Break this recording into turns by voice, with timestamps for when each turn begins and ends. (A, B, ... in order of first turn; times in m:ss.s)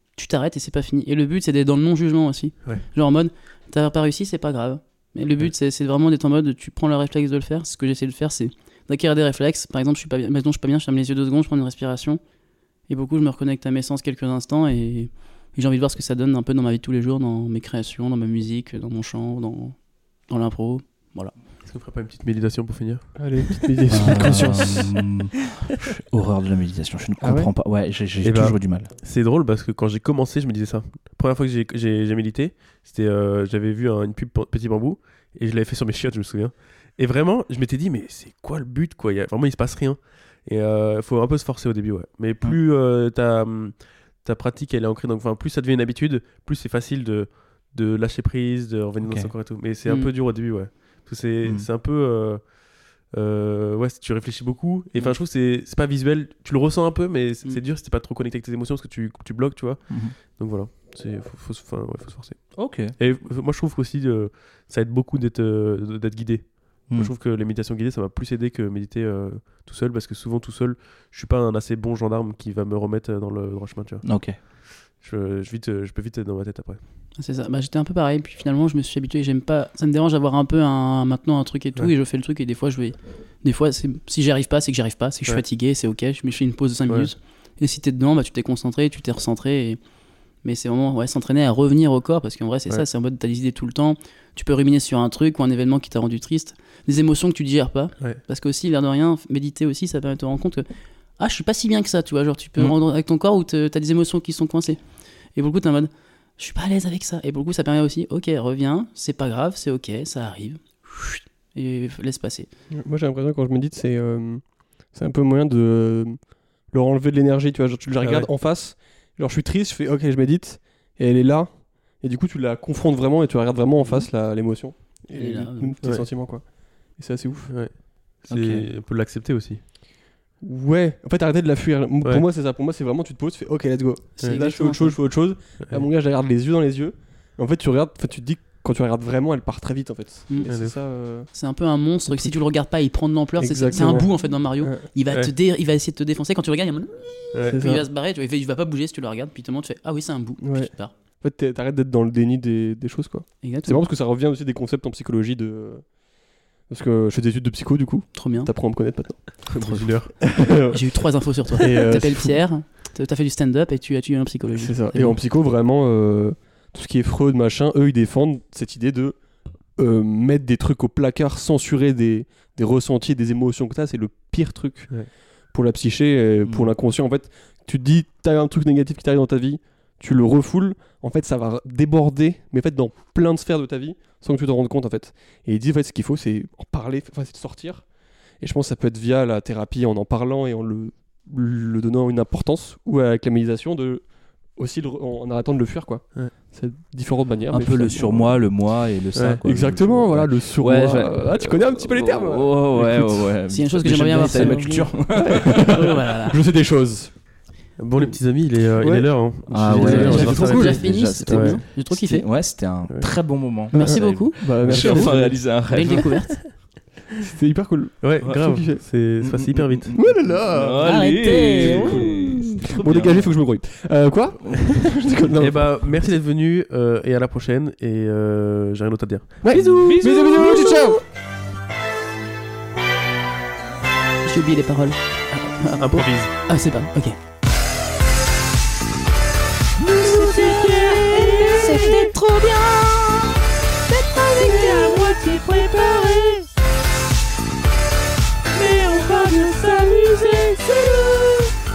0:00.1-0:12.2 A
0:12.9-0:21.3 A
0:21.6-0:23.2 B
0:23.2-0:24.9 C
0:23.9-0:28.9 D
0:27.2-0:27.5 C
0:28.2-0:52.5 B
0:49.0-0:49.3 D
0:49.8-0:50.1 A
0:53.1-1:14.1 B
0:59.9-1:00.1 D
1:02.6-1:02.9 D
1:14.0-1:14.4 D
1:15.0-1:16.8 B
1:17.2-1:29.8 A
1:30.4-1:40.6 A
1:41.2-1:44.8 A
1:45.3-1:52.5 A
1:52.7-2:07.5 C
1:58.0-1:58.3 B
2:05.1-2:05.8 A
2:07.5-2:09.6 B
2:08.3-2:08.6 D
2:10.4-2:21.3 C
2:14.2-2:15.0 A
2:20.3-2:20.6 A
2:20.4-2:20.8 B
2:21.3-2:30.9 A
2:22.0-2:22.4 C
2:23.4-2:24.8 C
2:27.3-2:27.6 B
2:27.5-2:27.8 C
2:30.4-2:36.0 C
2:33.4-2:33.8 A
2:36.6-2:39.6 C
2:38.1-2:38.5 A
2:39.5-2:40.4 B
2:39.6-2:45.2 A
2:40.3-2:40.8 C
2:41.6-2:42.4 C
2:44.6-2:49.2 C
2:49.7-3:18.4 C
2:56.4-2:56.7 D
3:17.5-3:25.9 D
3:19.1-3:19.4 B
3:19.4-3:23.3 C
3:23.5-3:26.4 A
3:24.3-3:27.2 C
3:27.8-3:31.6 B
3:28.8-3:30.8 C
3:29.5-3:36.2 D
3:29.8-3:32.3 A
3:33.7-3:35.6 C
3:33.7-3:36.4 A
3:37.2-3:38.8 C
3:38.0-3:39.9 B
3:39.2-3:43.4 D
3:39.9-3:45.7 C
3:40.8-3:42.6 A
3:45.4-3:50.0 B
3:49.4-3:51.0 C
3:49.8-3:50.6 D
3:50.4-3:50.8 A
3:50.4-3:50.9 E
3:54.2-3:57.2 A
3:55.7-3:56.3 B
3:59.8-4:03.3 E
4:01.2-4:02.5 A
4:03.9-4:06.5 E
4:04.5-4:04.9 A
4:08.5-4:11.5 E